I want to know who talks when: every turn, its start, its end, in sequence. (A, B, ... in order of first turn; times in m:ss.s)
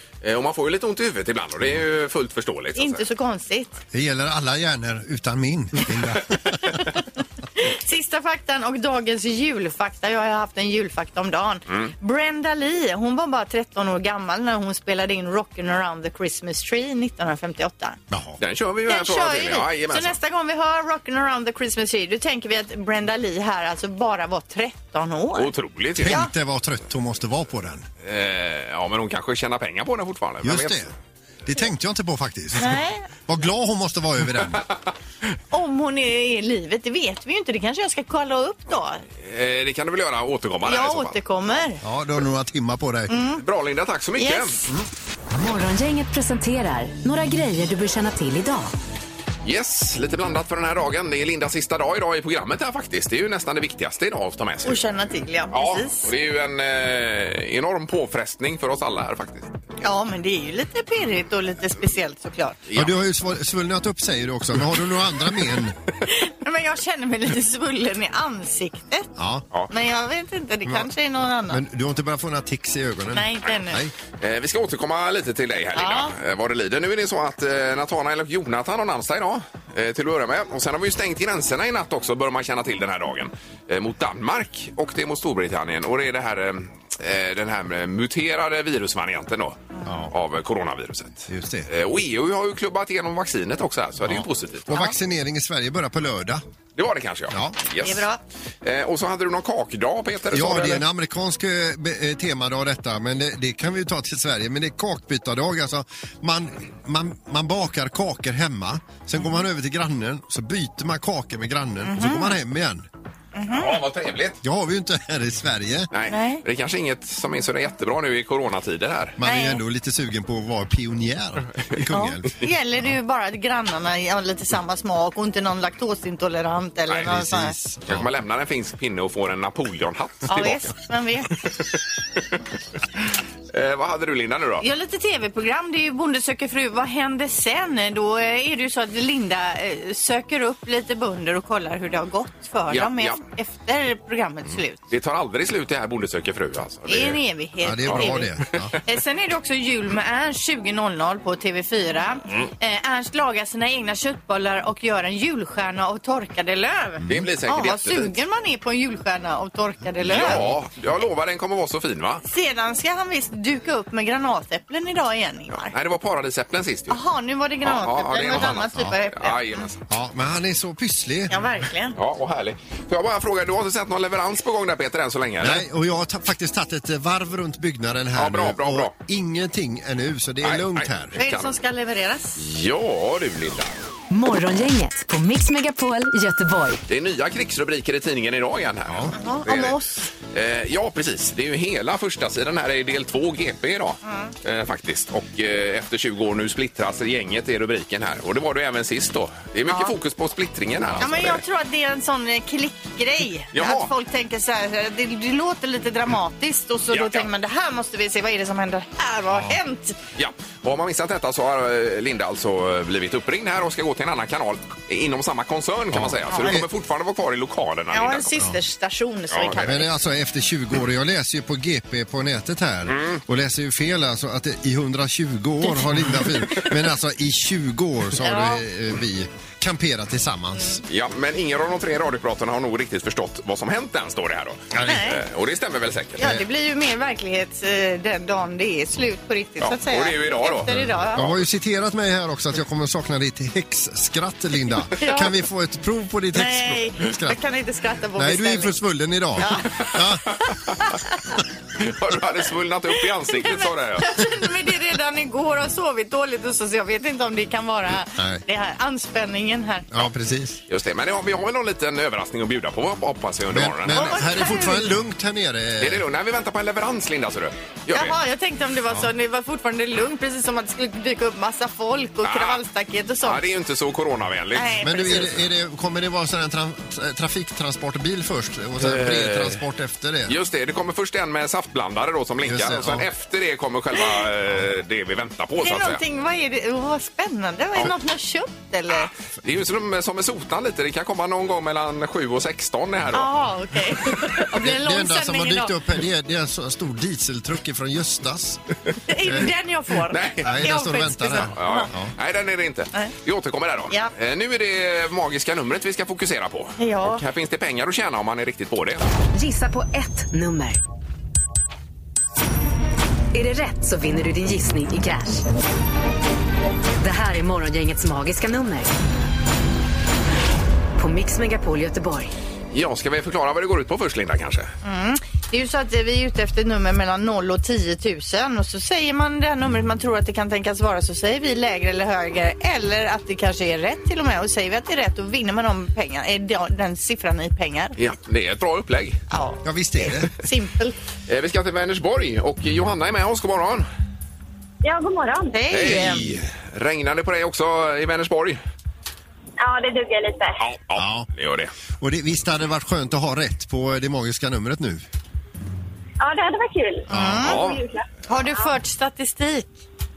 0:00.2-0:03.0 A
0:02.8-0:03.7 B
0:03.9-0:06.9 C
0:06.6-0:07.0 B
0:07.6-0:18.0 B
0:18.1-0:18.4 C
0:18.4-0:20.2 A
0:18.9-0:25.5 B
0:25.4-0:26.2 A
0:26.0-0:27.8 C
0:26.0-0:26.3 B
0:28.0-0:30.8 A
0:30.4-0:30.9 C
0:31.4-0:34.7 C
0:32.6-0:33.0 B
0:35.5-0:39.0 B
0:39.2-0:41.2 A
0:40.6-0:41.8 B
0:41.8-0:43.2 C
0:43.1-0:43.4 B
0:43.4-0:44.6 A
0:44.2-0:44.6 B
0:45.3-0:48.7 D
0:49.4-0:54.8 A
0:54.6-0:56.1 B
0:55.5-0:59.5 A
0:59.8-1:02.6 B
1:02.7-1:02.9 A
1:02.8-1:05.8 C
1:06.1-1:09.1 B
1:09.2-1:09.4 C
1:09.7-1:11.6 B
1:11.5-1:13.9 C
1:13.1-1:13.8 B
1:14.2-1:34.8 A
1:15.7-1:16.1 B
1:29.8-1:30.1 C
1:31.3-1:31.7 C
1:34.0-1:36.4 C
1:36.8-1:38.1 A
1:37.3-1:37.6 C
1:37.8-1:38.2 B
1:38.6-1:40.8 A
1:40.3-1:52.8 C
1:51.8-1:52.3 B
1:53.3-1:53.7 B
1:53.5-1:54.4 A
1:54.4-1:55.9 C
1:55.9-1:59.2 A
1:56.1-1:56.4 B
1:59.2-2:02.3 C
1:59.2-1:59.6 B
2:01.9-2:07.6 B
2:07.0-2:08.1 C
2:07.9-2:10.7 A
2:10.3-2:11.3 B
2:13.5-2:14.6 A
2:14.6-2:24.8 B
2:22.7-2:23.2 A
2:24.9-2:27.2 A
2:26.9-2:28.3 B
2:27.6-2:28.7 C
2:27.8-2:28.7 A
2:28.8-2:40.5 B
2:37.1-2:38.1 A
2:40.0-2:42.2 A
2:42.2-2:45.7 B
2:45.5-2:47.0 A
2:46.9-2:49.4 B
2:47.6-2:49.8 A
2:49.9-2:51.4 C
2:51.3-2:52.0 B
2:52.0-2:55.6 A
2:55.4-3:01.2 C
2:58.2-2:58.9 A
3:00.4-3:01.5 A
3:01.2-3:02.4 B
3:02.4-3:03.7 A
3:04.1-3:06.8 D
3:06.9-3:21.4 A
3:08.9-3:09.2 C
3:09.1-3:10.1 B
3:14.0-3:14.3 B
3:19.7-3:19.9 B
3:21.0-3:30.0 B
3:23.5-3:23.9 A
3:26.9-3:27.3 A
3:30.2-3:38.3 A
3:35.9-3:36.7 C
3:36.3-3:36.6 B
3:37.9-3:39.9 B
3:39.3-3:39.7 A
3:39.6-3:50.8 C
3:42.9-3:43.2 A
3:48.2-3:48.6 B
3:50.9-3:56.2 A
3:54.7-3:55.1 C
3:54.8-3:55.2 B
3:56.2-4:01.2 B
3:56.2-3:56.4 C
3:59.6-4:01.4 A
4:01.1-4:07.4 C
4:05.0-4:05.3 B
4:06.3-4:08.7 B
4:08.2-4:10.4 C
4:09.4-4:09.8 B
4:11.8-4:14.2 A
4:13.3-4:20.0 B
4:18.1-4:18.4 C
4:19.9-4:20.6 C
4:20.7-4:24.1 A
4:23.5-4:26.0 C
4:23.9-4:24.9 B
4:25.8-4:28.2 A
4:27.9-4:33.4 B
4:32.2-4:32.6 A
4:33.2-4:35.3 A
4:34.5-4:35.3 B
4:34.8-4:40.3 C
4:38.8-4:39.6 A
4:40.3-4:46.0 A
4:42.4-4:43.0 C
4:45.6-4:49.1 B
4:48.9-4:53.3 A
4:53.1-4:55.7 B
4:54.5-4:58.6 C
4:59.1-5:01.9 B
5:00.1-5:00.5 A
5:00.4-5:02.1 C
5:01.5-5:09.0 A
5:06.8-5:07.2 B
5:09.3-5:10.8 D
5:13.3-5:15.4 D
5:17.0-5:18.9 D
5:21.0-5:22.3 D
5:22.7-5:24.7 A
5:24.8-5:38.0 B
5:38.0-5:39.2 A
5:39.3-5:41.0 B
5:39.6-5:40.3 C
5:41.3-5:43.9 A
5:44.8-5:45.5 E
5:45.5-5:46.3 B
5:45.7-5:48.6 A
5:49.6-5:50.6 E
5:50.6-5:51.7 A
5:51.0-5:51.3 C
5:52.0-5:55.0 C
5:56.2-5:58.0 E
5:57.1-5:57.4 C
5:57.1-5:57.6 B
5:57.4-5:57.8 A
5:58.3-5:59.8 B